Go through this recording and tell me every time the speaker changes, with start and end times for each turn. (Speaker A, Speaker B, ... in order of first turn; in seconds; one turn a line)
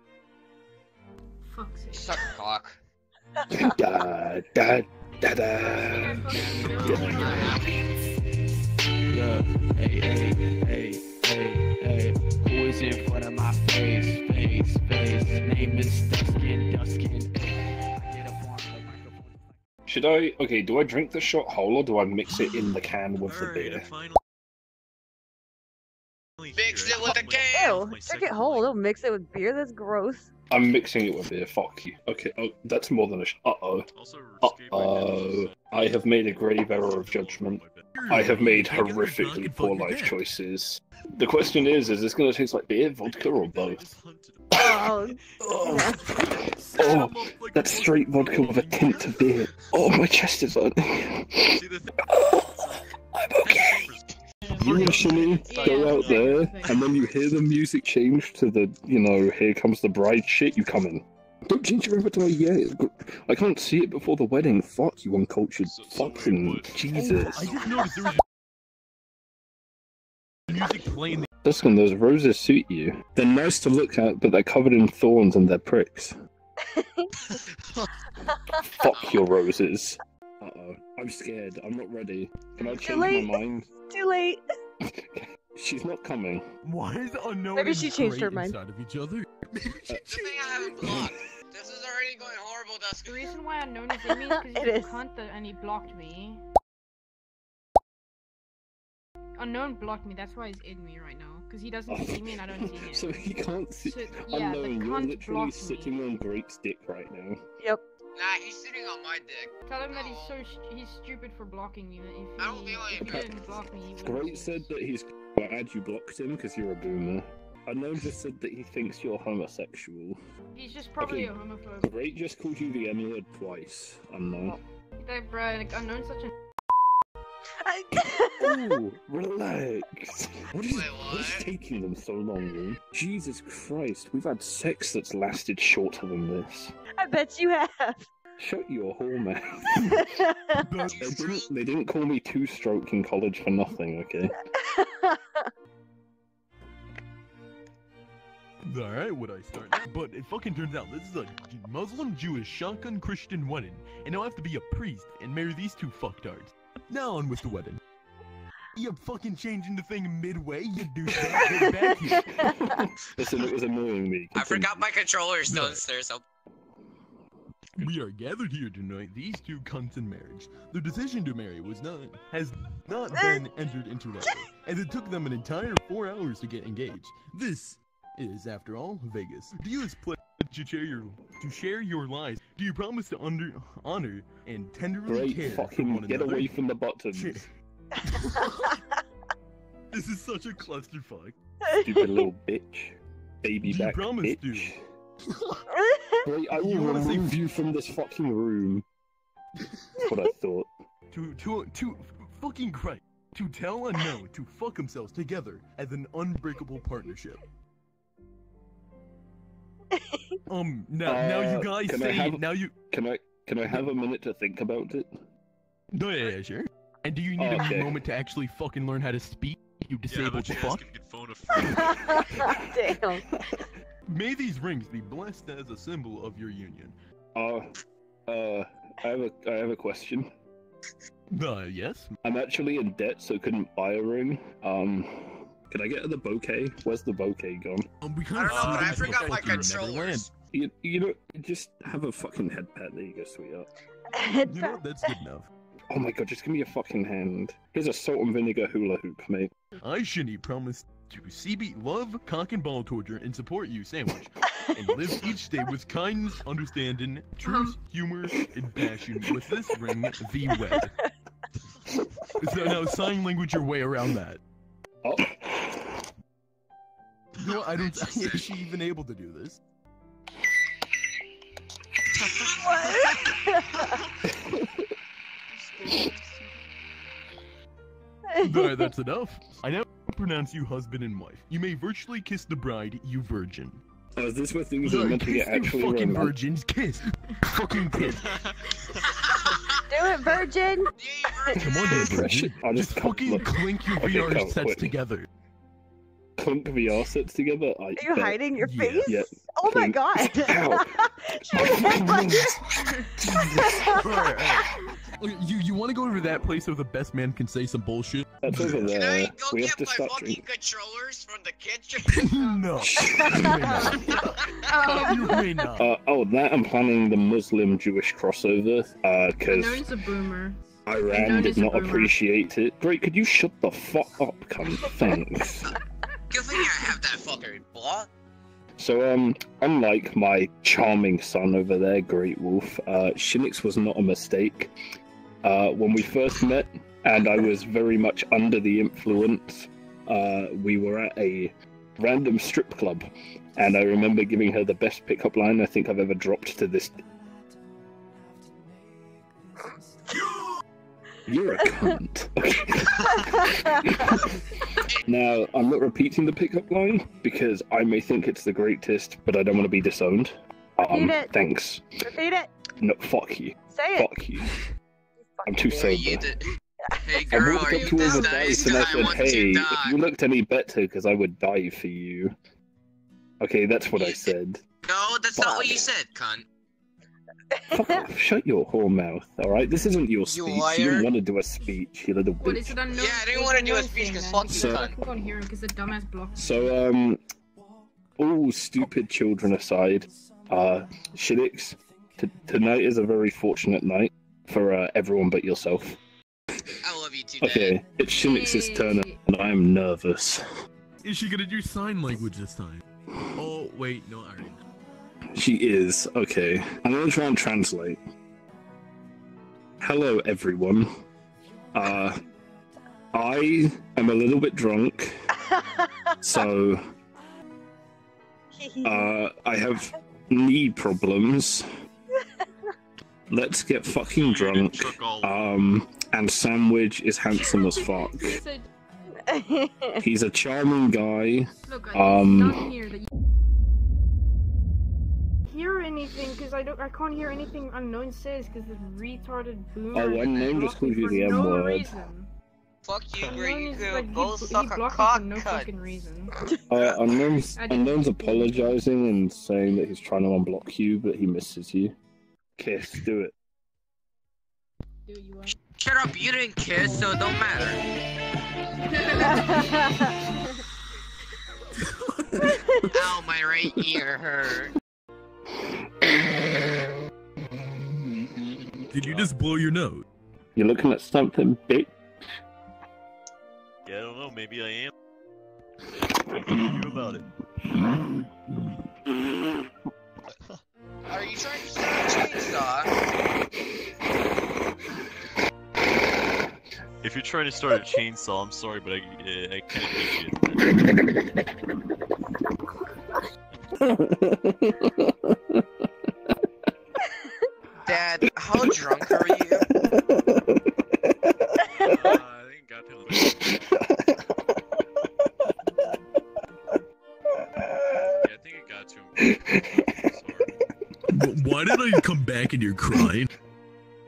Speaker A: 1.5-2.2
Speaker B: 1.9-2.8
Speaker C: 3.6-7.5
Speaker A: 5.6-7.6
Speaker B: 6.4-7.8
Speaker D: 6.7-8.0
Speaker D: 9.1-19.6
Speaker C: 19.9-23.9
Speaker E: 23.2-24.2
Speaker E: 26.4-28.8
Speaker B: 26.5-27.8
Speaker F: 27.5-30.3
Speaker C: 30.5-33.9
Speaker E: 33.9-36.1
Speaker C: 34.4-43.8
Speaker E: 36.7-38.6
Speaker G: 37.9-40.2
Speaker E: 42.9-44.6
Speaker F: 44.5-46.1
Speaker C: 45.4-45.9
Speaker G: 46.4-49.0
Speaker C: 46.7-51.6
Speaker E: 48.9-49.9
Speaker E: 51.5-51.9
Speaker C: 52.1-52.5
Speaker E: 52.5-54.2
Speaker C: 53.1-53.9
Speaker A: 54.4-56.8
Speaker C: 54.6-67.5
Speaker G: 54.7-55.1
Speaker E: 54.8-57.5
Speaker E: 65.6-68.0
Speaker F: 66.9-67.8
Speaker G: 67.2-68.2
Speaker G: 70.5-71.3
Speaker C: 71.4-76.1
Speaker F: 76.7-77.4
Speaker C: 78.7-83.7
Speaker B: 78.9-79.3
Speaker F: 82.6-84.4
Speaker C: 85.1-86.4
Speaker G: 86.6-91.1
Speaker F: 87.5-88.6
Speaker B: 90.0-93.3
Speaker A: 93.0-96.4
Speaker F: 93.9-95.0
Speaker A: 99.4-103.3
Speaker C: 101.9-107.4
Speaker A: 103.8-105.9
Speaker B: 108.2-110.4
Speaker A: 109.7-114.7
Speaker B: 112.4-113.3
Speaker C: 113.0-113.3
Speaker C: 114.0-120.2
Speaker A: 120.5-122.0
Speaker C: 121.0-124.6
Speaker A: 125.0-126.3
Speaker F: 127.6-128.7
Speaker C: 128.4-136.7
Speaker B: 130.7-131.4
Speaker F: 137.0-138.1
Speaker C: 138.4-139.9
Speaker F: 139.7-140.7
Speaker G: 140.6-141.0
Speaker B: 140.9-141.5
Speaker C: 140.9-144.4
Speaker F: 144.5-145.5
Speaker G: 148.6-157.8
Speaker G: 158.7-162.3
Speaker F: 161.5-162.7
Speaker C: 162.4-164.9
Speaker B: 164.3-166.2
Speaker G: 165.4-165.8
Speaker G: 167.8-186.5
Speaker F: 173.1-173.4
Speaker C: 185.1-187.4
Speaker G: 187.1-188.8
Speaker F: 188.2-188.5
Speaker G: 189.9-191.3
Speaker F: 191.7-192.3
Speaker C: 191.8-194.8
Speaker G: 193.6-194.7
Speaker F: 195.7-196.2
Speaker C: 196.2-198.8
Speaker G: 196.6-197.3
Speaker C: 200.0-200.7
Speaker G: 201.1-207.4
Speaker F: 209.9-210.4
Speaker G: 210.5-212.7
Speaker C: 211.1-215.1
Speaker G: 215.9-220.9
Speaker C: 217.4-217.9
Speaker E: 220.0-222.4
Speaker F: 221.6-223.5
Speaker G: 224.1-226.9
Speaker C: 227.3-227.7
Speaker C: 228.3-230.3
Speaker G: 231.3-232.1
Speaker C: 232.2-237.8
Speaker G: 238.0-240.3
Speaker B: 238.3-240.3
Speaker C: 238.5-239.2
Speaker C: 240.5-243.7
Speaker F: 244.1-245.1
Speaker G: 244.4-245.5
Speaker C: 245.9-249.5
Speaker G: 249.8-260.9
Speaker A: 257.4-257.8
Speaker G: 262.4-264.4
Speaker C: 265.0-265.9
Speaker G: 267.4-269.6
Speaker B: 267.4-268.5
Speaker F: 272.6-273.9
Speaker C: 274.4-274.7
Speaker E: 275.5-276.5
Speaker F: 278.3-278.9
Speaker G: 278.4-283.8
Speaker C: 284.1-286.3
Speaker G: 284.8-288.2
Speaker E: 288.3-289.1
Speaker F: 289.9-290.9
Speaker B: 291.0-292.1
Speaker G: 291.6-295.3
Speaker C: 291.9-294.9
Speaker C: 296.4-298.4
Speaker F: 297.9-304.6
Speaker G: 298.6-299.4
Speaker C: 299.0-300.8
Speaker C: 301.5-302.6
Speaker C: 303.2-303.9
Speaker G: 303.9-308.9
Speaker C: 308.4-310.4
Speaker B: 308.9-312.3
Speaker G: 312.1-315.9
Speaker A: 312.3-312.7
Speaker C: 312.8-313.8
Speaker A: 313.7-314.1
Speaker B: 313.9-314.7
Speaker A: 314.7-315.4
Speaker C: 315.8-319.9
Speaker A: 319.5-322.1
Speaker C: 320.9-325.7
Speaker B: 326.3-328.1
Speaker C: 328.8-334.7
Speaker C: 335.4-346.9
Speaker C: 351.2-354.5
Speaker F: 353.4-353.7
Speaker C: 355.0-361.9
Speaker F: 360.8-361.3
Speaker F: 362.0-362.5
Speaker C: 362.8-364.5
Speaker F: 363.7-364.1
Speaker F: 365.2-366.0
Speaker C: 365.4-366.3
Speaker B: 365.7-366.4
Speaker F: 366.9-367.5
Speaker B: 367.0-370.0
Speaker C: 367.3-372.3
Speaker A: 367.5-369.4
Speaker C: 373.4-374.6
Speaker B: 373.9-376.4
Speaker C: 375.4-375.9
Speaker F: 377.5-378.0
Speaker C: 377.7-382.8
Speaker B: 380.2-381.1
Speaker A: 382.4-386.7
Speaker B: 382.9-385.0
Speaker C: 384.5-384.9
Speaker C: 386.4-387.2
Speaker C: 388.2-396.0
Speaker B: 396.8-397.8
Speaker C: 397.4-400.4
Speaker A: 398.1-399.2
Speaker G: 401.0-402.8
Speaker G: 403.3-404.6
Speaker C: 405.4-408.0
Speaker C: 409.8-410.9
Speaker C: 411.7-412.1
Speaker C: 413.1-415.1
Speaker F: 415.5-416.4
Speaker C: 416.2-416.8
Speaker F: 418.5-419.1
Speaker C: 418.8-421.6
Speaker C: 423.3-428.4
Speaker E: 424.1-425.4
Speaker A: 427.4-428.7
Speaker F: 429.2-430.0
Speaker C: 430.0-432.7
Speaker A: 431.7-433.1
Speaker A: 435.5-442.3
Speaker C: 439.9-441.9
Speaker B: 442.8-445.7
Speaker A: 443.2-446.3
Speaker C: 446.7-451.9
Speaker A: 447.5-448.6
Speaker C: 452.6-453.3
Speaker A: 455.1-455.6
Speaker B: 455.8-457.8
Speaker A: 456.7-457.7
Speaker A: 458.9-460.3
Speaker F: 459.3-459.6
Speaker G: 461.8-462.4
Speaker B: 462.9-464.7
Speaker G: 468.9-470.0
Speaker C: 469.0-469.3
Speaker C: 470.6-471.9
Speaker E: 473.9-474.9
Speaker E: 476.3-477.2
Speaker B: 481.1-482.9
Speaker E: 487.0-490.7
Speaker C: 493.8-495.6
Speaker B: 497.8-499.6
Speaker C: 498.6-500.6
Speaker E: 501.7-503.7
Speaker C: 503.2-503.8
Speaker C: 507.7-508.1
Speaker E: 508.1-510.6
Speaker C: 509.2-509.8
Speaker G: 511.1-513.3